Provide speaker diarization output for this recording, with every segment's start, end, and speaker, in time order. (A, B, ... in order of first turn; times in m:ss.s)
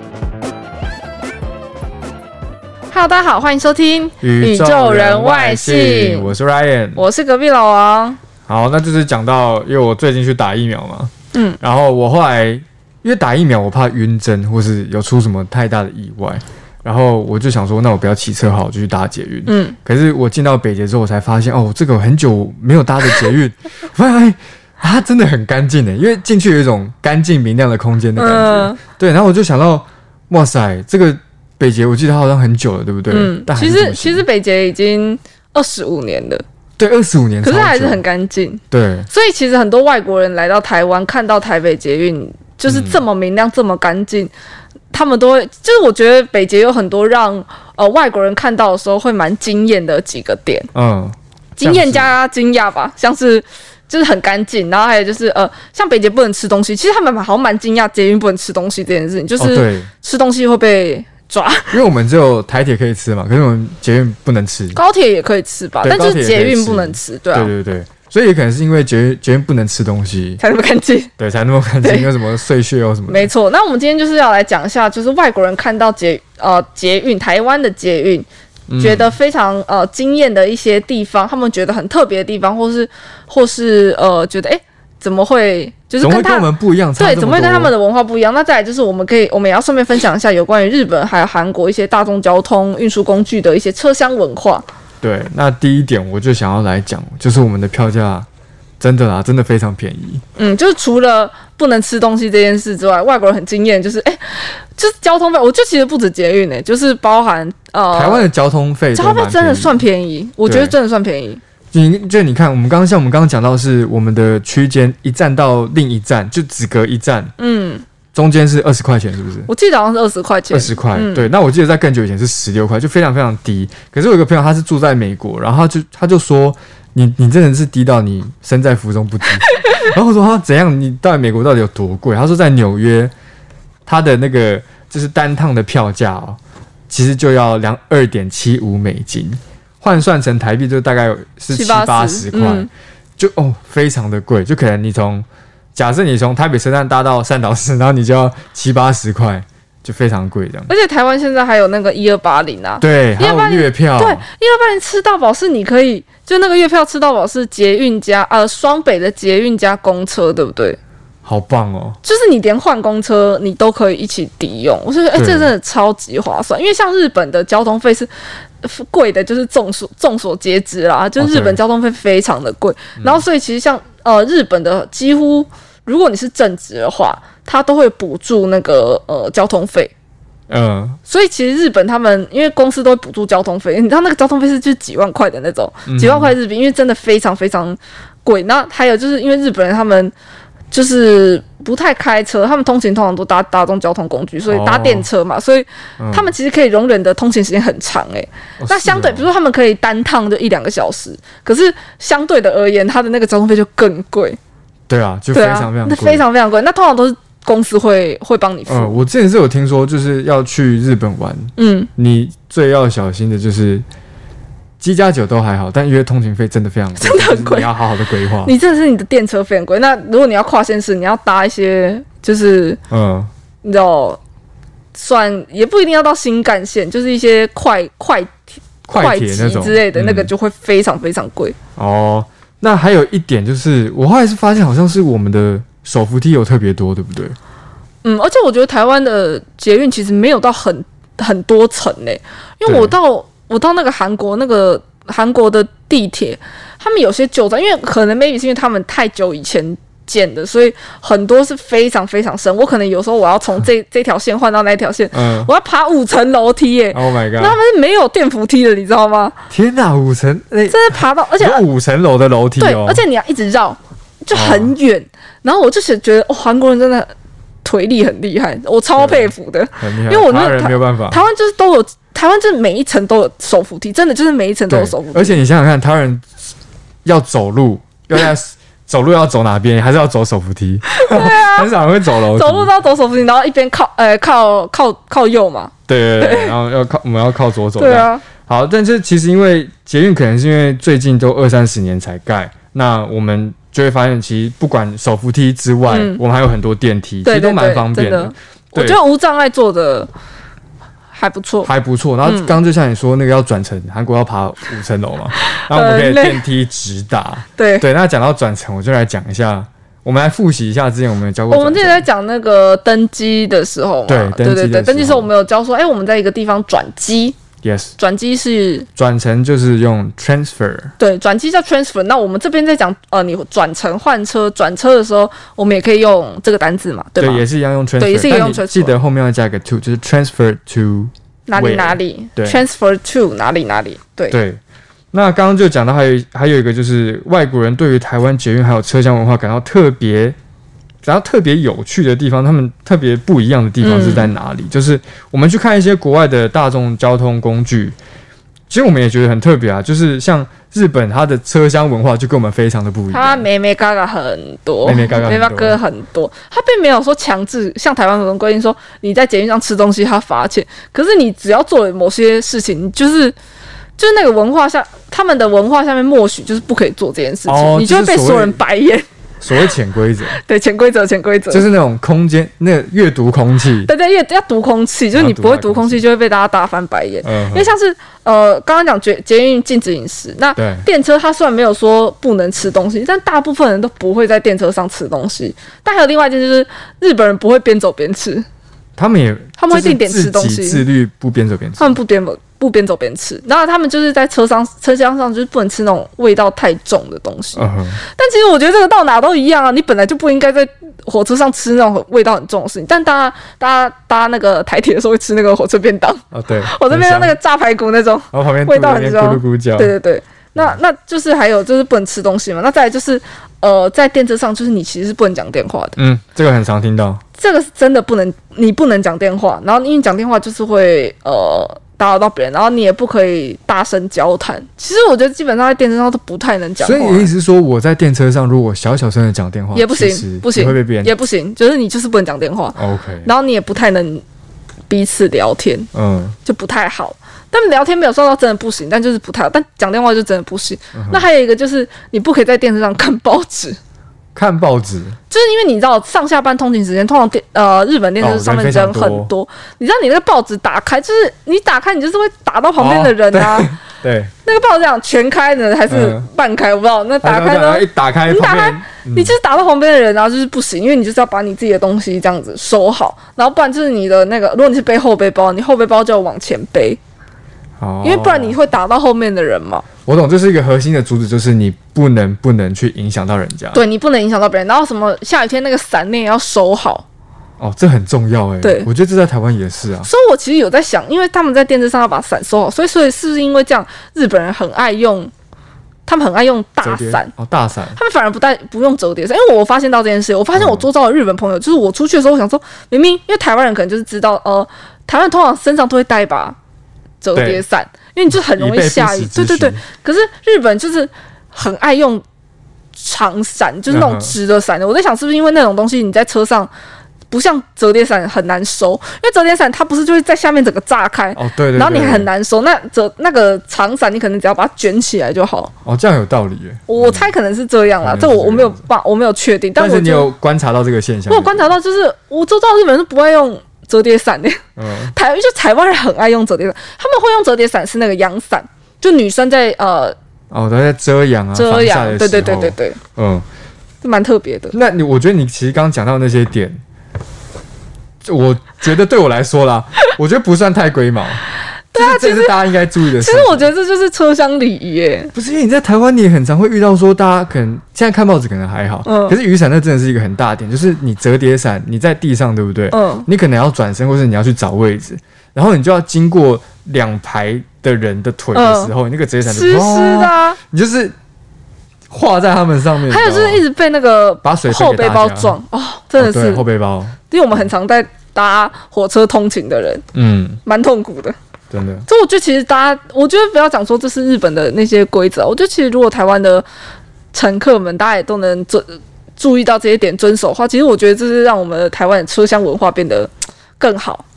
0:02.9-0:06.3 A
0:04.2-0:07.0 B
0:07.0-0:08.2 A
0:08.5-0:34.2 B
0:11.3-0:11.6 A
0:19.5-0:19.8 A
0:28.2-0:28.8 A
0:33.1-0:36.4 A
0:36.8-0:38.0 B
0:37.4-0:44.3 A
0:38.7-0:39.1 B
0:42.6-0:43.0 B
0:44.9-0:50.7 A
0:50.7-0:52.1 B
0:51.6-1:01.8 A
0:59.4-0:59.9 B
1:01.7-1:04.8 B
1:04.7-1:07.5 A
1:05.8-1:10.4 B
1:10.4-1:11.1 A
1:11.2-1:13.3 B
1:11.8-1:12.1 A
1:13.1-1:18.3 A
1:18.7-1:19.2 B
1:18.8-1:34.6 A
1:26.0-1:27.7 B
1:35.0-1:38.3 B
1:38.8-1:40.2 B
1:40.4-1:48.3 A
1:47.9-1:49.8 B
1:48.9-1:51.4 A
1:50.4-1:50.7 B
1:51.7-1:57.3 B
1:57.4-1:57.8 A
1:58.1-1:59.5 B
1:59.5-2:01.3 A
2:00.5-2:13.1 B
2:13.9-2:16.4 B
2:16.9-2:30.7 B
2:21.5-2:22.7 A
2:30.7-2:40.8 A
2:32.8-2:34.2 B
2:41.2-2:42.0 B
2:42.0-2:48.1 A
2:45.1-2:45.5 B
2:48.6-2:59.9 A
2:51.2-2:51.6 B
2:53.0-2:53.2 B
3:00.5-3:01.0 B
3:01.1-3:10.1 A
3:05.9-3:06.3 B
3:10.7-3:24.4 A
3:14.5-3:15.1 B
3:16.0-3:16.4 B
3:18.6-3:19.3 B
3:24.9-3:26.2 B
3:25.3-3:29.0 A
3:28.7-3:33.8 B
3:31.6-3:31.9 A
3:34.8-3:38.5 B
3:37.0-3:37.7 A
3:38.4-3:42.8 A
3:42.9-3:43.3 B
3:43.6-3:44.2 A
3:45.0-3:51.6 A
3:48.9-3:50.3 B
3:51.8-3:57.4 B
3:58.0-4:19.4 A
4:02.6-4:02.9 B
4:15.1-4:15.5 B
4:16.9-4:17.6 B
4:19.5-4:23.0 B
4:20.7-4:21.6 A
4:22.6-4:27.1 A
4:24.3-4:24.7 B
4:27.6-4:35.4 A
4:29.0-4:31.2 B
4:34.7-4:36.2 B
4:37.0-4:42.7 B
4:41.0-4:46.5 A
4:45.9-4:59.0 B
4:47.8-4:48.2 A
4:55.9-4:56.2 A
4:57.2-5:00.1 A
5:01.1-5:01.7 A
5:01.6-5:12.0 B
5:02.2-5:02.6 A
5:05.3-5:06.4 A
5:07.6-5:07.8 A
5:11.5-5:17.4 A
5:14.1-5:15.3 B
5:17.6-5:17.9 B
5:18.0-5:18.9 A
5:19.0-5:20.9 B
5:21.0-5:27.4 A
5:27.2-5:32.6 B
5:28.0-5:29.0 A
5:31.5-5:34.4 A
5:34.3-5:34.6 B
5:35.1-5:40.4 B
5:41.0-5:48.0 B
5:43.8-5:44.3 A
5:48.7-5:53.5 B
5:53.1-6:03.4 A
5:54.8-5:55.8 B
6:04.0-6:09.1 A
6:07.5-6:08.6 B
6:09.4-6:10.4 B
6:10.3-6:11.7 A
6:11.5-6:13.9 B
6:13.8-6:28.5 A
6:15.1-6:16.0 B
6:17.2-6:17.7 B
6:20.6-6:20.9 B
6:29.0-6:32.0 B
6:29.6-6:30.9 A
6:31.8-6:56.0 A
6:37.6-6:38.0 B
6:46.3-6:47.4 B
6:48.3-6:49.9 B
6:56.0-6:57.2 B
6:57.4-7:07.3 A
7:06.8-7:11.1 B
7:09.8-7:14.2 A
7:12.8-7:13.3 B
7:14.9-7:15.9 A
7:15.9-7:16.4 B
7:16.4-7:23.8 A
7:20.9-7:21.2 B
7:24.4-7:25.2 B
7:25.3-7:33.7 A
7:28.2-7:29.3 B
7:32.8-7:34.3 B
7:34.4-7:47.0 A
7:35.9-7:36.3 B
7:37.2-7:39.4 B
7:47.8-7:48.6 B
7:48.0-7:49.9 A
7:50.1-7:53.8 B
7:53.7-7:57.0 A
7:57.6-8:00.1 B
7:58.6-7:58.9 A
8:00.0-8:05.3 A
8:06.1-8:07.3 A
8:06.8-8:08.0 B
8:08.0-8:16.6 A
8:10.6-8:10.9 B
8:17.2-8:22.2 A
8:17.4-8:17.6 B
8:18.3-8:19.8 B
8:23.0-8:26.7 A
8:23.9-8:24.4 B
8:27.3-8:35.7 A
8:31.4-8:32.3 B
8:35.8-8:37.3 B
8:36.9-8:40.3 A
8:38.0-8:38.8 B
8:39.8-8:41.7 B
8:41.3-8:50.2 A
8:44.8-8:45.1 B
8:50.5-8:53.4 B
8:51.5-8:53.0 A
8:54.0-8:54.7 A
8:54.7-8:56.8 B
8:58.2-9:01.4 B
9:01.9-9:05.3 A
9:02.0-9:03.7 B
9:05.3-9:21.1 B
9:09.0-9:09.4 A
9:12.9-9:13.3 A
9:18.5-9:18.9 A
9:19.4-9:20.6 A
9:22.1-9:23.6 B
9:23.0-9:26.6 A
9:24.4-9:25.6 B
9:26.2-9:27.2 B
9:27.3-9:30.0 A
9:30.1-9:30.6 B
9:30.6-9:31.4 A
9:31.7-9:32.1 B
9:32.1-9:36.6 A
9:37.3-9:44.2 A